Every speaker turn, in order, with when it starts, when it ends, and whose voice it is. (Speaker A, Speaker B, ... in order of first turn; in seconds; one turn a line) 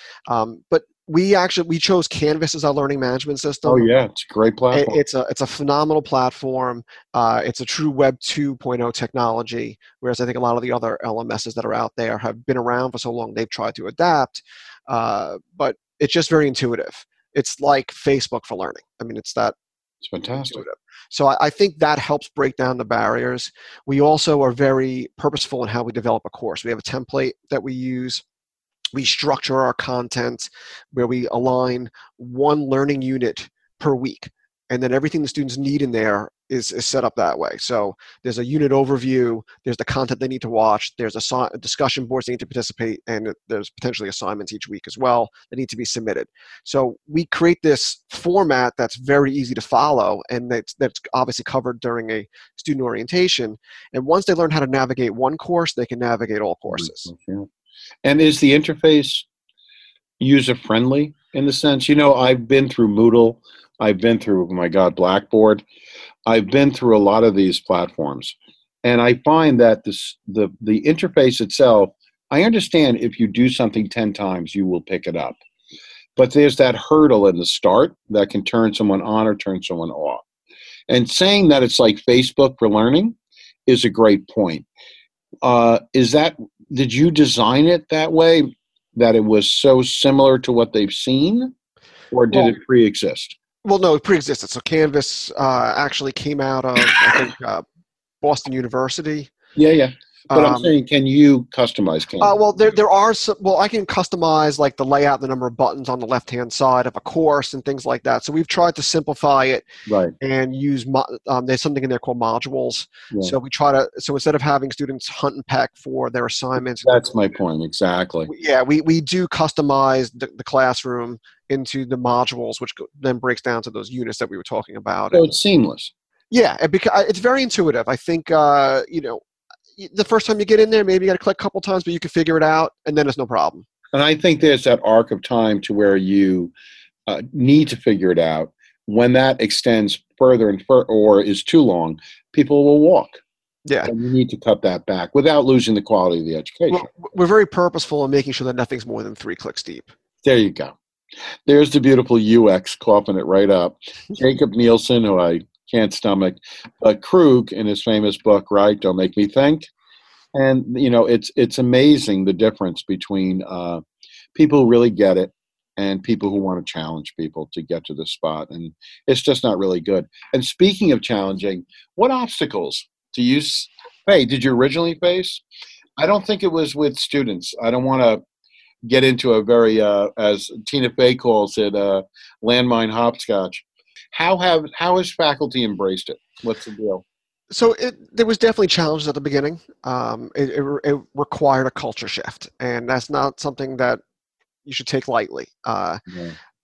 Speaker A: 0.3-3.9
Speaker B: 3.6-5.0
Speaker A: 4.7-19.6
Speaker B: 20.0-20.6
Speaker A: 20.5-28.2
Speaker A: 28.9-57.1
Speaker B: 56.7-57.5
Speaker B: 58.0-59.3
Speaker B: 60.2-65.6
Speaker B: 66.3-75.4
Speaker B: 76.2-80.2
Speaker B: 80.9-83.2
Speaker B: 83.7-84.7
Speaker B: 85.4-91.5
Speaker B: 92.1-93.3
Speaker A: 92.3-92.6
Speaker A: 93.6-97.7
Speaker A: 98.2-99.3
Speaker B: 99.6-102.4
Speaker A: 100.3-100.7
Speaker A: 102.2-109.7
Speaker B: 109.9-110.1
Speaker A: 110.2-117.1
Speaker B: 113.1-113.4
Speaker B: 116.8-118.3
Speaker A: 118.3-125.3
Speaker B: 125.1-125.9
Speaker A: 126.3-129.2
Speaker A: 129.8-133.7
Speaker B: 133.9-136.5
Speaker B: 137.1-143.2
Speaker A: 143.7-143.9
Speaker B: 143.9-146.9
Speaker A: 146.7-149.9
Speaker B: 150.2-150.8
Speaker B: 151.5-159.7
Speaker B: 160.3-163.8
Speaker B: 164.3-175.4
Speaker B: 176.0-178.2
Speaker B: 178.8-187.0
Speaker A: 187.5-194.0
Speaker A: 194.7-196.0
Speaker B: 196.1-196.4